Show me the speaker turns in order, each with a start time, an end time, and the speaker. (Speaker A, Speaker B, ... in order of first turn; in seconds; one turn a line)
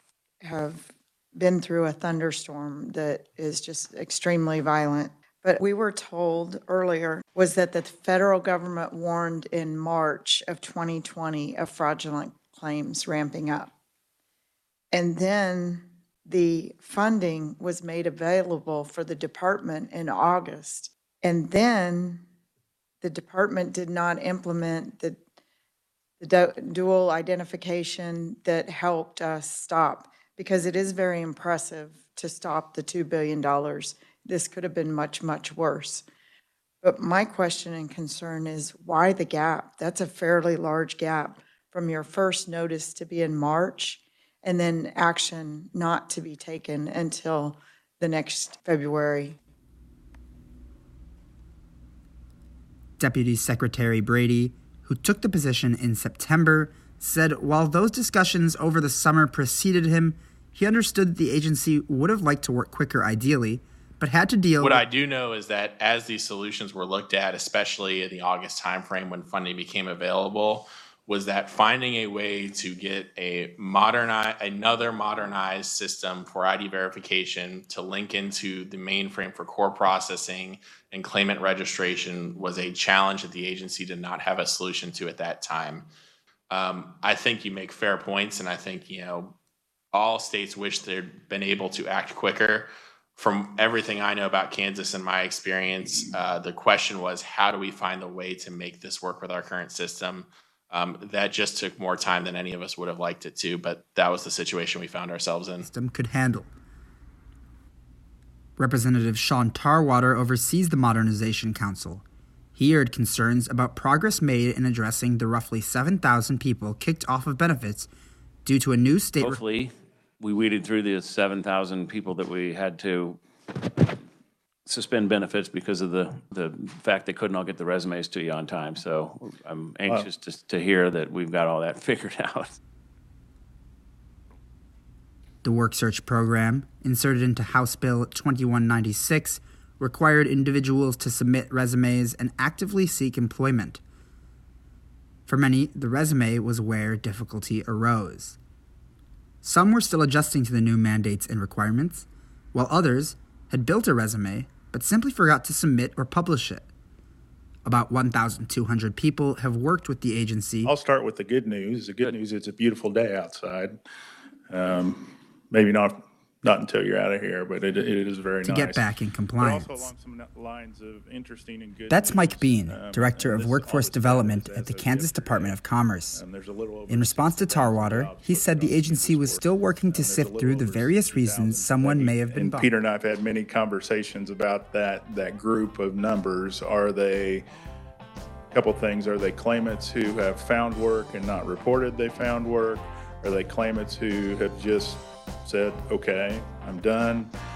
Speaker A: 0.4-13.7
Speaker A: 14.9-22.2
Speaker A: 23.0-25.2
Speaker A: 26.2-36.0
Speaker A: 36.8-49.4
Speaker B: 53.0-64.8
Speaker C: 64.6-85.9
Speaker C: 86.5-89.3
Speaker C: 89.9-105.7
Speaker B: 105.6-106.5
Speaker B: 108.6-112.0
Speaker B: 112.5-117.9
Speaker B: 118.4-119.4
Speaker D: 119.2-124.0
Speaker D: 124.7-132.6
Speaker B: 135.4-143.8
Speaker B: 145.2-148.4
Speaker B: 149.4-156.7
Speaker B: 157.7-160.7
Speaker E: 160.7-163.8
Speaker E: 164.5-187.5
Speaker B: 168.4-169.9
Speaker B: 171.9-176.2
Speaker B: 176.9-182.7
Speaker E: 188.5-197.3